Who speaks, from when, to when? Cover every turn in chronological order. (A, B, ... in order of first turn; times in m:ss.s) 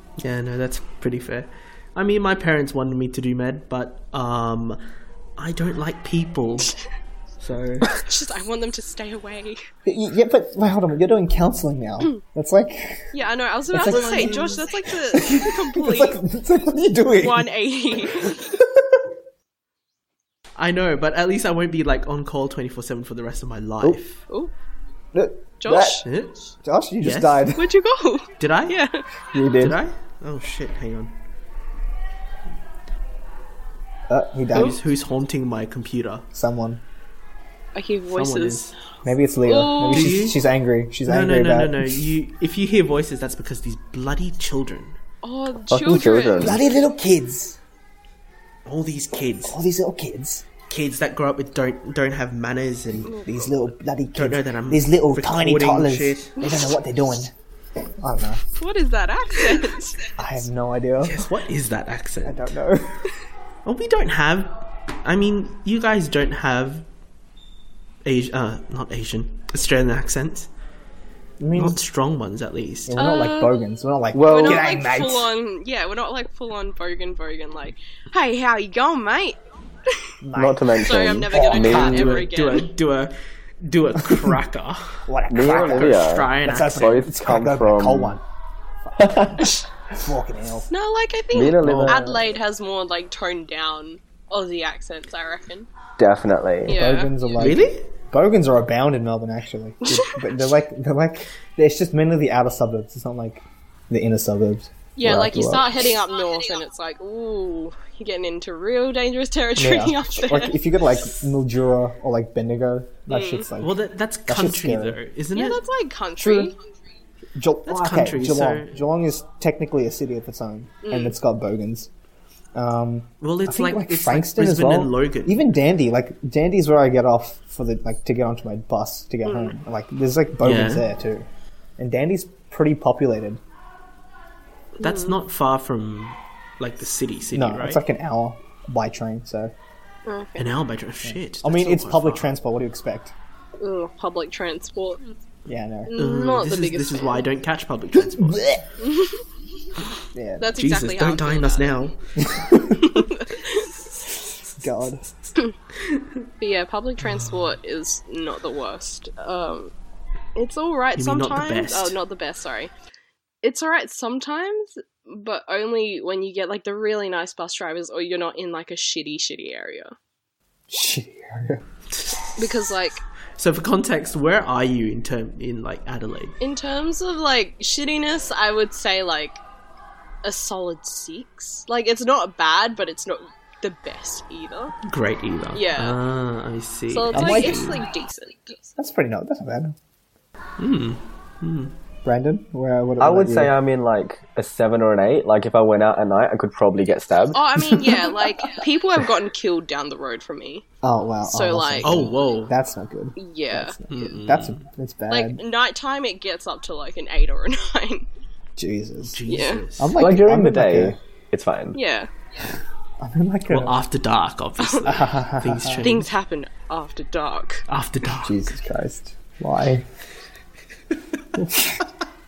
0:00.2-0:04.8 A
0:05.4-0:06.8 A
0:07.4-0:07.9 A
0:07.9-0:09.6 B
0:09.8-0:13.1 C
0:13.1-0:16.2 B
0:13.7-0:17.5 C
0:13.8-0:14.5 A
0:17.2-0:18.4 B
0:18.2-0:19.1 C
0:20.6-0:24.2 A
0:25.1-0:26.0 C
0:25.6-0:26.0 B
0:26.0-0:26.4 A
0:26.6-0:27.7 C
0:27.0-0:27.5 A
0:27.6-0:29.0 B
0:28.4-0:28.8 A
0:29.3-0:29.8 C
0:29.6-0:31.1 A
0:34.1-0:34.8 C
0:34.5-0:36.2 A
0:36.3-0:36.8 C
0:37.7-0:38.7 B
0:38.1-0:38.7 A
0:39.0-0:42.1 C
0:39.4-0:40.2 B
0:39.9-0:40.4 A
0:41.0-0:45.0 A
0:45.2-0:46.6 B
0:45.7-0:46.6 D
0:46.4-0:47.6 C
0:48.6-0:49.6 A
0:49.5-0:50.5 C
0:50.7-0:53.1 A
0:53.0-0:53.5 B
0:53.2-0:57.3 C
0:54.1-0:56.4 A
0:58.0-0:58.4 C
0:58.6-1:00.0 B
1:00.2-1:01.3 C
1:01.0-1:02.5 A
1:02.2-1:03.1 C
1:03.6-1:06.8 A
1:08.0-1:10.5 A
1:11.4-1:11.8 C
1:11.6-1:13.0 A
1:12.8-1:15.3 C
1:13.0-1:13.5 B
1:14.1-1:14.7 D
1:14.2-1:19.4 B
1:20.2-1:22.1 C
1:20.4-1:22.2 D
1:20.8-1:22.7 B
1:21.6-1:27.0 A
1:24.0-1:24.4 C
1:25.1-1:28.2 C
1:25.3-1:28.1 D
1:28.8-1:30.7 C
1:29.0-1:29.4 D
1:30.7-1:35.7 B
1:31.3-1:32.2 D
1:31.6-1:32.0 A
1:36.0-1:36.8 D
1:36.6-1:45.7 C
1:36.7-1:37.2 B
1:37.4-1:37.9 A
1:39.8-1:40.2 B
1:45.0-1:50.6 B
1:49.6-1:53.7 C
1:53.1-1:53.5 B
1:53.6-1:55.6 A
1:54.3-1:55.0 C
1:55.3-1:56.6 B
1:56.2-1:56.5 C
1:57.3-2:01.9 C
1:57.7-1:58.8 A
2:00.8-2:01.2 B
2:02.5-2:13.4 C
2:03.2-2:05.4 A
2:09.2-2:09.5 B
2:10.4-2:10.9 A
2:14.8-2:15.2 B
2:14.8-2:17.8 A
2:17.3-2:19.5 C
2:20.0-2:20.5 B
2:20.4-2:22.3 A
2:21.0-2:23.1 C
2:23.6-2:25.0 B
2:25.4-2:26.0 C
2:25.9-2:27.2 B
2:26.0-2:28.6 A
2:28.0-2:28.6 C
2:28.8-2:29.2 B
2:30.1-2:30.5 C
2:30.4-2:31.8 B
2:30.6-2:32.0 A
2:32.2-2:33.0 C
2:32.8-2:33.7 B
2:34.6-2:35.3 C
2:36.4-2:39.7 B
2:40.4-2:42.7 B
2:41.0-2:42.0 A
2:43.4-2:49.9 B
2:50.7-2:51.6 C
2:51.9-2:52.7 A
2:52.4-2:53.0 B
2:53.4-2:56.4 A
2:56.4-2:59.4 B
3:00.2-3:04.7 B
3:04.8-3:07.8 A
3:05.5-3:06.0 B
3:06.9-3:08.6 B
3:07.1-3:07.8 C
3:08.8-3:09.8 C
3:10.6-3:11.7 A
3:12.0-3:13.5 C
3:13.0-3:17.4 D
3:17.3-3:20.6 B
3:20.8-3:25.4 C
3:21.2-3:22.0 B
3:21.8-3:22.5 A
3:23.2-3:23.8 B
3:23.9-3:24.6 A
3:25.1-3:28.0 B
3:28.6-3:29.2 C
3:29.1-3:30.0 A
3:29.3-3:29.6 B
3:29.8-3:31.0 C
3:30.0-3:31.8 D
3:31.7-3:32.1 B
3:33.0-3:33.8 C
3:33.5-3:36.1 A
3:34.6-3:34.9 B
3:34.8-3:35.8 C
3:35.8-3:37.6 B
3:37.7-3:38.4 A
3:38.2-3:39.9 C
3:41.3-3:41.8 C